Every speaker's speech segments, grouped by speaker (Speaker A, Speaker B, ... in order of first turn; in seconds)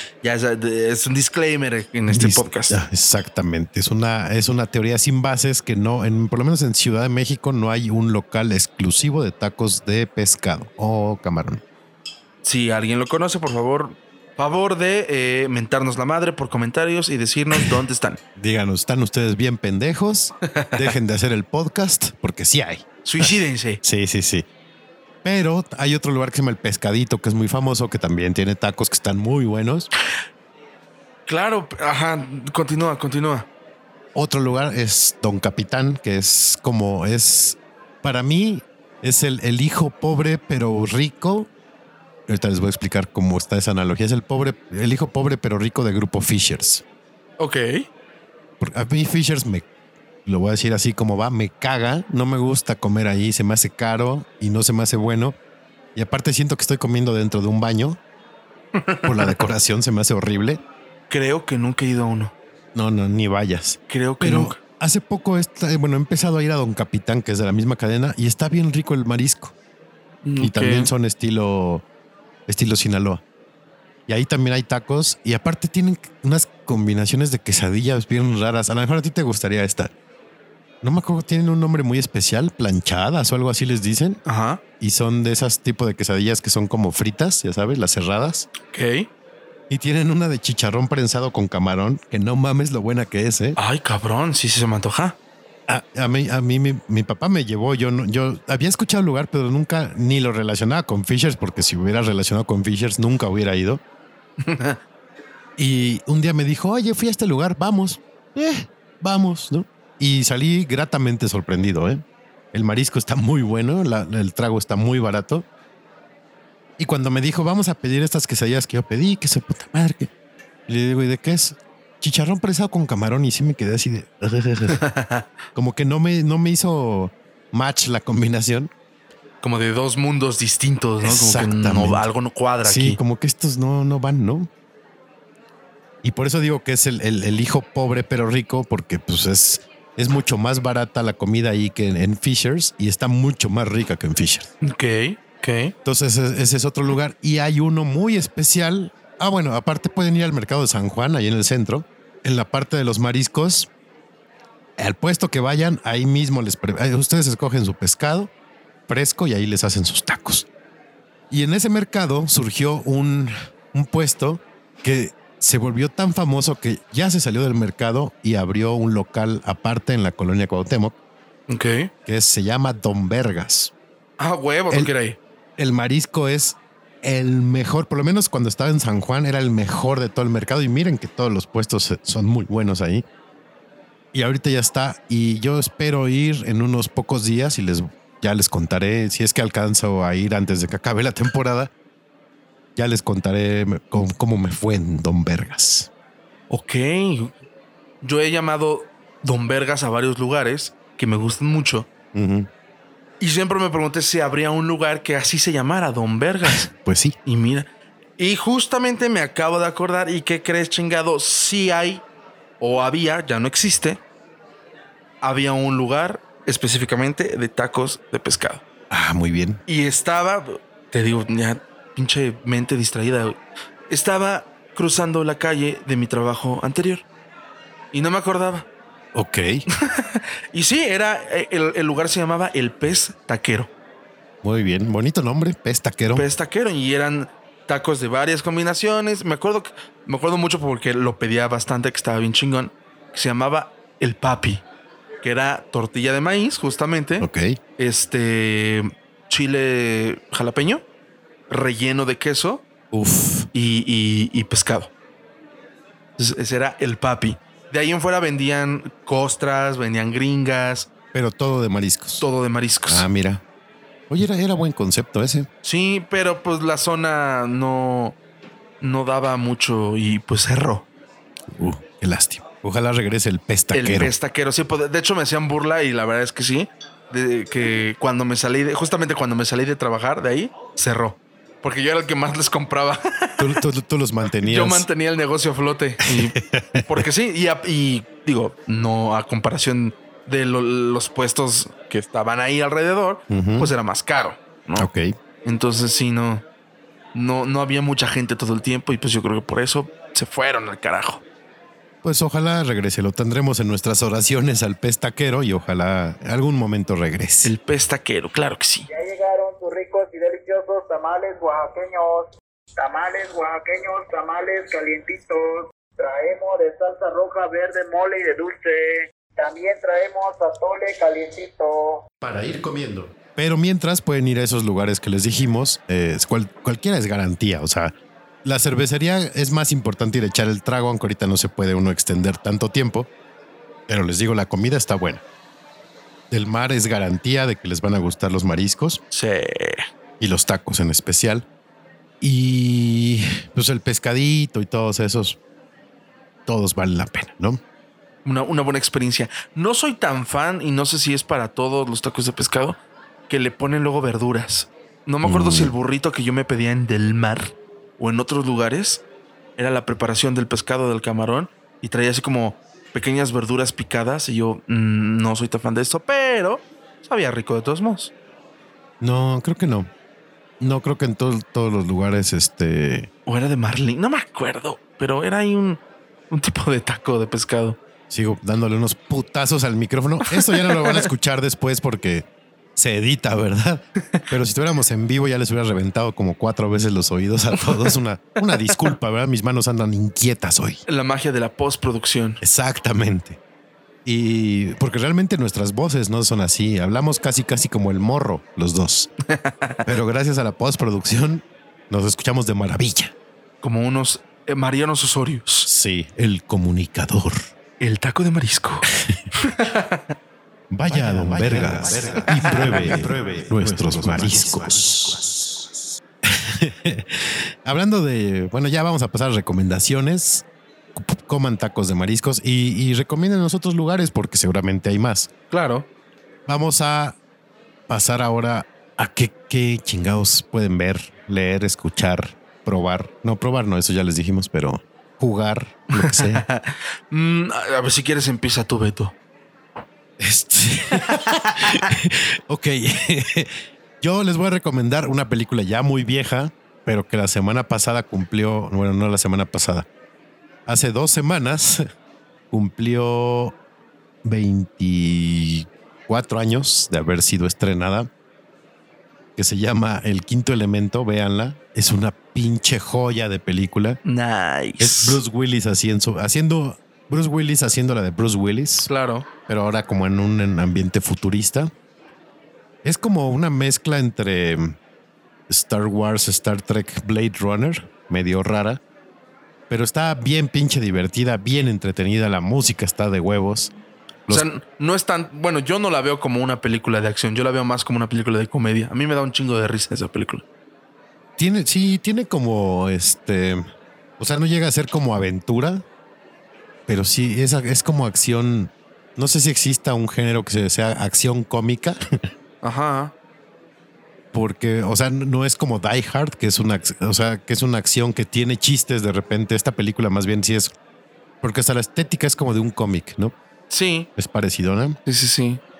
Speaker A: 0.2-2.8, 12.4-18.2, 20.6-20.9, 23.1-23.8, 31.3-33.5, 47.4-47.9, 58.8-59.4, 61.1-62.3, 63.9-64.6, 70.2-70.9, 84.3-84.6, 88.7-89.1, 93.6-95.2, 104.4-104.8, 124.7-125.2, 129.4-133.0, 144.6-145.7, 171.5-171.9, 174.2-175.2, 196.5-197.3, 198.0-201.9, 203.2-206.7, 207.2-212.0, 212.6-214.0, 215.2-218.6, 219.7-223.4, 223.9-227.0, 227.9-228.7, 229.8-233.7, 236.1-244.6, 245.2-250.8, 251.5-252.6, 253.5-254.9, 256.2-260.9, 262.2-263.1, 265.6-268.2, 268.8-270.9, 273.7-283.6, 284.4-294.9, 295.4-296.4, 297.1-301.2, 307.4-308.9, 339.1-339.8, 348.2-352.8, 353.3-359.0, 359.6-368.1, 373.3-377.8, 380.4-381.1, 388.5-388.8, 390.9-392.4, 399.4-399.8, 403.6-405.7, 407.8-408.9, 409.4-410.0, 410.9-413.2, 413.8-414.4, 425.5-425.9, 436.0-439.1, 441.0-441.8, 464.1-465.2, 468.9-469.3, 484.3-490.4, 502.6-503.1, 513.7-514.1, 515.1-515.6
Speaker B: 2.1-11.6, 18.4-24.5, 25.2-29.9, 34.1-41.5, 42.3-46.8, 48.6-49.7, 50.3-55.4, 56.0-58.0, 59.0-60.6, 62.8-69.5, 70.4-71.8, 72.5-73.2, 74.1-79.9, 80.8-84.2, 84.8-88.5, 89.7-93.6, 95.7-103.8, 105.6-115.5, 116.8-120.1, 120.7-124.8, 125.5-128.7, 131.0-132.1, 132.6-134.5, 136.0-144.5, 145.8-153.7, 154.8-158.3, 158.9-160.5, 161.3-170.9, 172.1-173.7, 175.6-183.1, 184.1-191.7, 192.8-195.9, 202.1-202.5, 206.4-207.2, 218.9-219.6, 229.1-229.7, 234.4-236.2, 247.2-247.6, 252.9-253.5, 261.1-262.3, 262.9-263.4, 264.1-265.5, 271.5-274.1, 283.4-284.9, 286.2-287.1, 293.3-293.7, 294.8-295.1, 302.0-307.5, 322.2-333.1, 333.9-335.2, 336.3-339.0, 340.2-341.5, 342.2-345.4, 346.5-347.6, 355.2-355.7, 369.0-369.9, 370.6-373.1, 378.1-390.8, 392.4-393.4, 394.1-399.1, 399.9-403.1, 405.7-407.4, 410.7-415.3, 416.3-425.3, 426.5-427.2, 427.9-436.4, 440.2-449.9, 450.7-451.9, 452.5-453.6, 454.2-458.1, 459.4-464.0, 464.8-468.9, 469.5-471.7, 472.8-474.8, 475.5-478.8, 479.7-483.7, 491.4-493.6, 494.2-495.9, 496.9-502.0, 504.3-510.7, 511.4-513.4, 514.2-515.0
Speaker C: 308.9-322.0